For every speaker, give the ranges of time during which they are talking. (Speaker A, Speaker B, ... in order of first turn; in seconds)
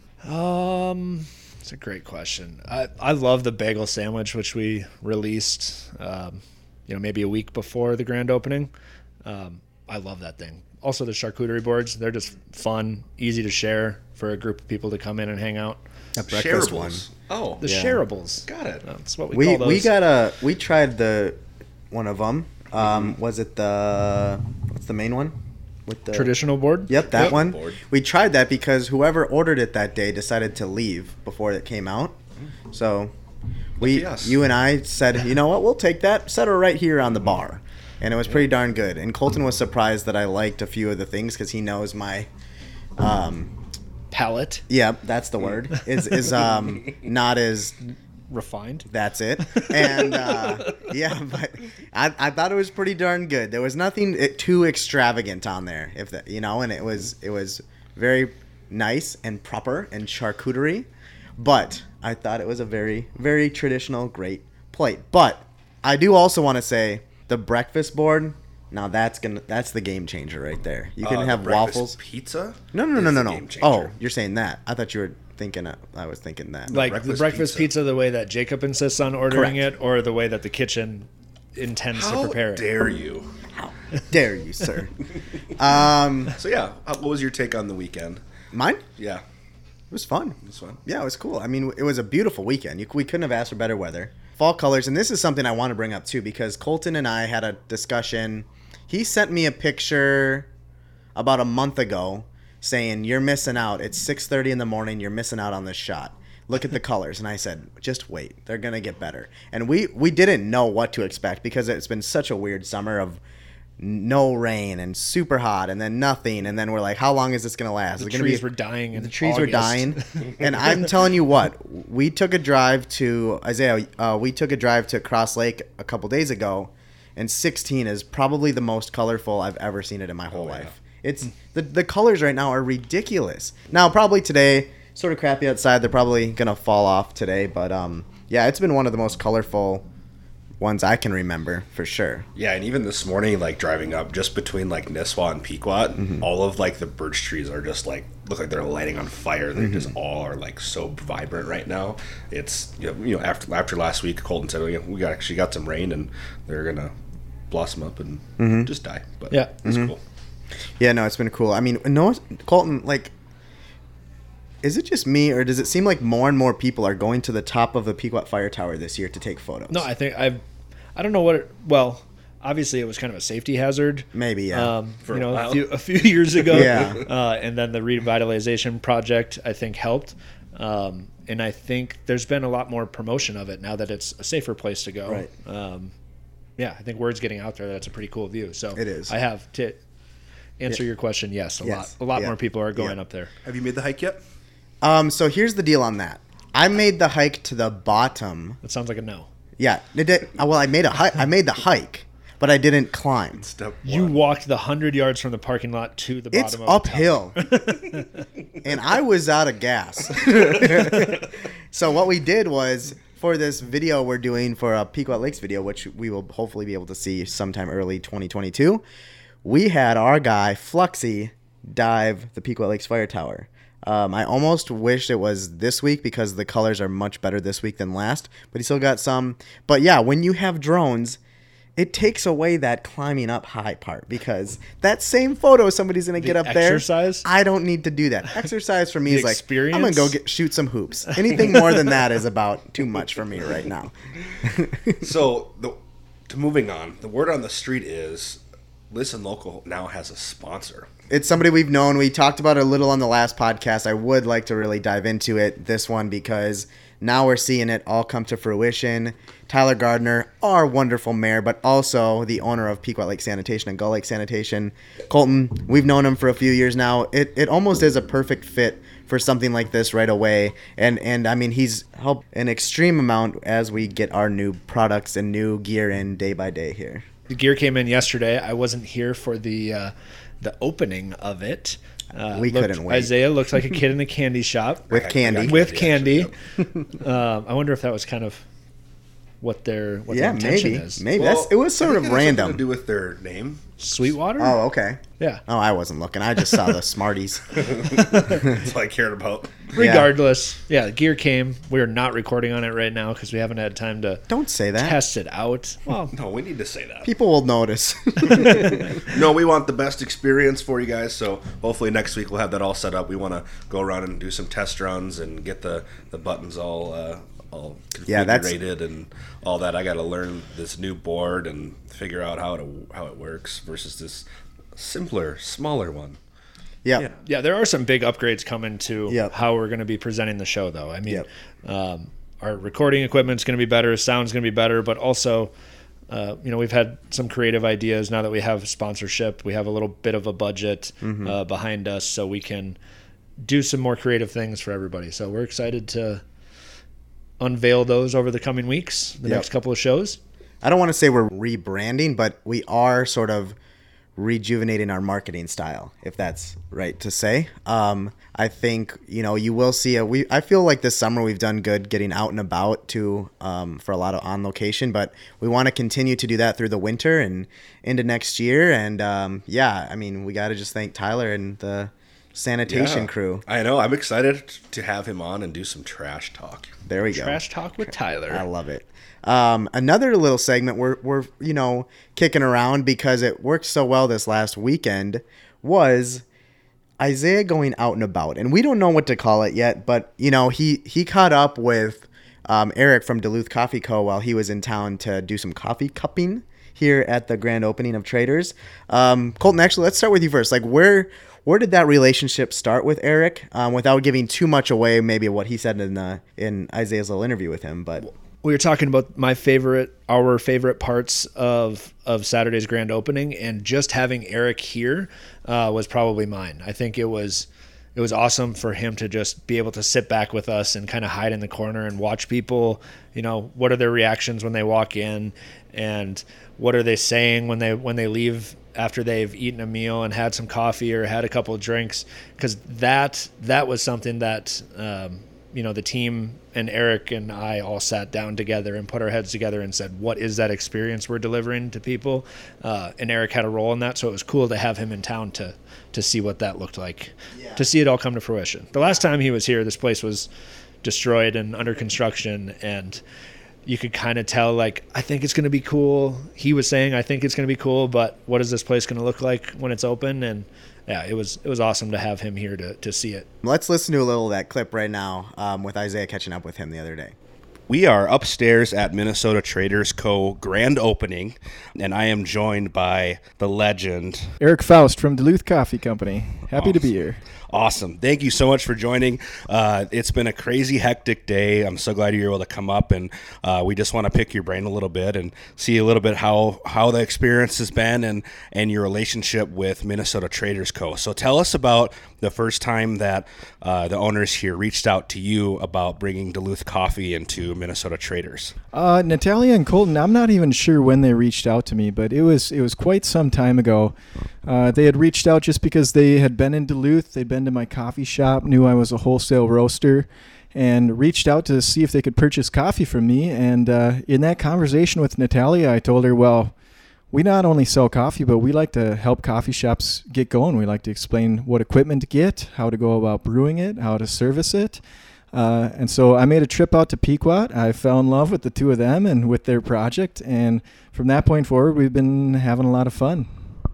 Speaker A: 0.2-8.7, 9.2-15.8, 17.6-19.9, 26.1-27.3, 44.1-44.6, 48.3-48.9, 49.5-50.7, 76.7-82.7, 118.0-120.0, 169.7-170.4, 171.0-185.9, 186.6-189.8, 190.6-193.3, 198.6-199.3, 203.8-208.2, 236.2-237.3, 239.1-240.2, 277.3-284.9, 285.4-286.3, 287.0-288.4, 289.4-291.1, 293.8-294.6, 295.2-295.4, 297.9-298.5, 299.8-304.2, 304.8-306.1, 327.2-335.5, 336.1-342.8, 343.4-346.2, 347.4-350.2, 377.1-378.4, 408.0-450.3, 450.8-453.0, 453.7-463.3
Speaker B: 16.2-17.6, 18.5-18.8, 22.8-23.1, 26.9-27.8, 33.8-34.4, 71.0-73.9, 76.7-77.7, 81.9-83.3, 86.3-88.2, 90.4-90.8, 130.3-130.7, 142.4-156.9, 157.5-160.0, 175.1-175.7, 176.3-177.1, 193.4-194.2, 203.4-204.2, 245.0-245.8, 246.3-248.4, 248.9-250.9, 284.9-286.3, 291.1-293.8, 297.6-299.8, 306.1-307.1, 308.3-324.2, 324.8-326.2, 372.7-376.7, 467.7-474.3, 476.5-476.9, 477.5-498.6
Speaker C: 16.3-17.0, 17.6-18.0, 19.3-21.4, 21.9-25.4, 25.9-26.3, 26.9-32.2, 32.7-33.1, 33.8-42.3, 43.0-43.5, 44.7-47.8, 48.9-60.9, 61.4-72.0, 72.7-76.7, 79.3-79.6, 83.5-84.9, 85.6-86.4, 88.5-88.8, 89.9-100.5, 101.2-113.2, 113.8-139.9, 140.6-142.3, 146.0-146.2, 149.6-149.9, 158.4-158.7, 159.7-159.9, 160.8-163.1, 164.6-169.9, 174.1-174.7, 176.5-177.1, 188.8-189.1, 191.6-193.0, 194.8-198.6, 199.6-203.5, 206.3-207.5, 208.6-218.8, 219.4-231.2, 231.8-245.0, 251.1-277.1, 282.3-283.1, 284.9-285.6, 286.6-286.9, 290.1-292.6, 294.4-297.8, 299.8-300.1, 304.3-305.0, 307.1-309.1, 318.1-318.6, 341.0-341.4, 350.6-353.6, 354.2-373.4, 376.9-377.4, 378.3-386.2, 387.0-408.1, 463.4-467.1
Speaker D: 474.4-477.2, 498.7-516.5, 517.1-524.8, 525.3-533.3